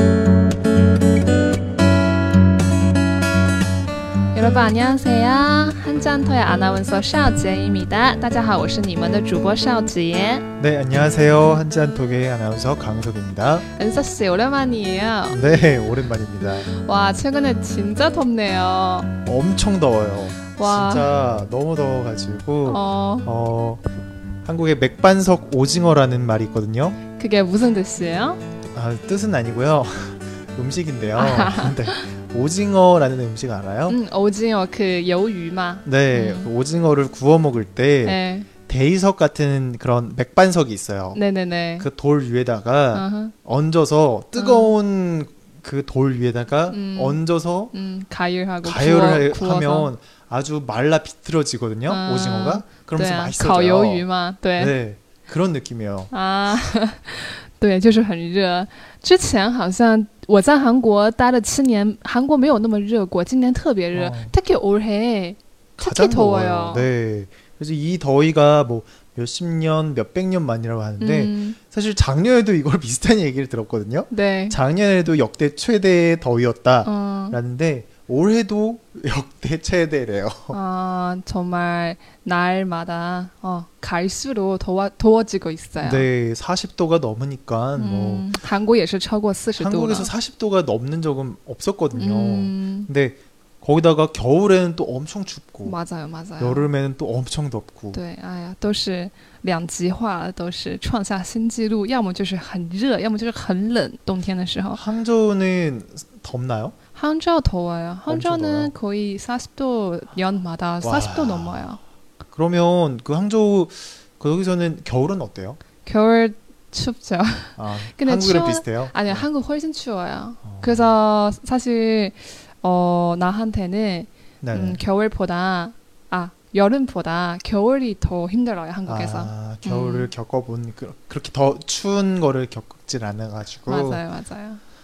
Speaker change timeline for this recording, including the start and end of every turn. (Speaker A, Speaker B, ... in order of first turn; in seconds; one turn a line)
Speaker A: 4.3-10.4
Speaker B: 10.6-13.7
Speaker A: 13.8-15.4
Speaker B: 15.3-16.7
Speaker A: 16.7-19.1
Speaker B: 19.2-23.8
Speaker A: 20.6-21.2
Speaker A: 22.7-23.3
Speaker B: 24.4-27.0
Speaker A: 27.1-28.4
Speaker B: 28.7-34.0
Speaker A: 31.2-32.0
Speaker A: 33.9-36.5
Speaker B: 35.9-41.2
Speaker A: 38.0-38.5
Speaker A: 41.1-41.9
Speaker B: 41.8-47.7
Speaker A: 42.9-43.3
Speaker A: 44.4-44.8
Speaker A: 46.7-47.2
Speaker A: 47.7-49.9
Speaker B: 48.6-54.0
Speaker A: 51.9-54.8
Speaker B: 54.6-56.1
Speaker A: 56.1-66.9
Speaker B: 63.9-64.3
Speaker B: 65.8-80.6
Speaker A: 71.0-71.6
Speaker A: 74.1-74.6
Speaker A: 76.8-77.4
Speaker A: 80.5-86.1
Speaker B: 85.8-88.3
Speaker A: 87.8-90.1
Speaker B: 89.6-95.8
Speaker A: 92.0-92.9
Speaker A: 95.7-96.7
Speaker B: 96.4-98.0
Speaker A: 97.9-104.8
Speaker B: 104.8-106.8
Speaker A: 106.9-111.8
Speaker B: 108.1-108.7
Speaker B: 110.8-111.7
Speaker B: 112.3-115.6
Speaker A: 115.8-130.1
Speaker B: 117.6-119.3
Speaker B: 120.4-121.0
Speaker B: 124.4-124.8
Speaker B: 128.9-134.0
Speaker A: 133.7-134.6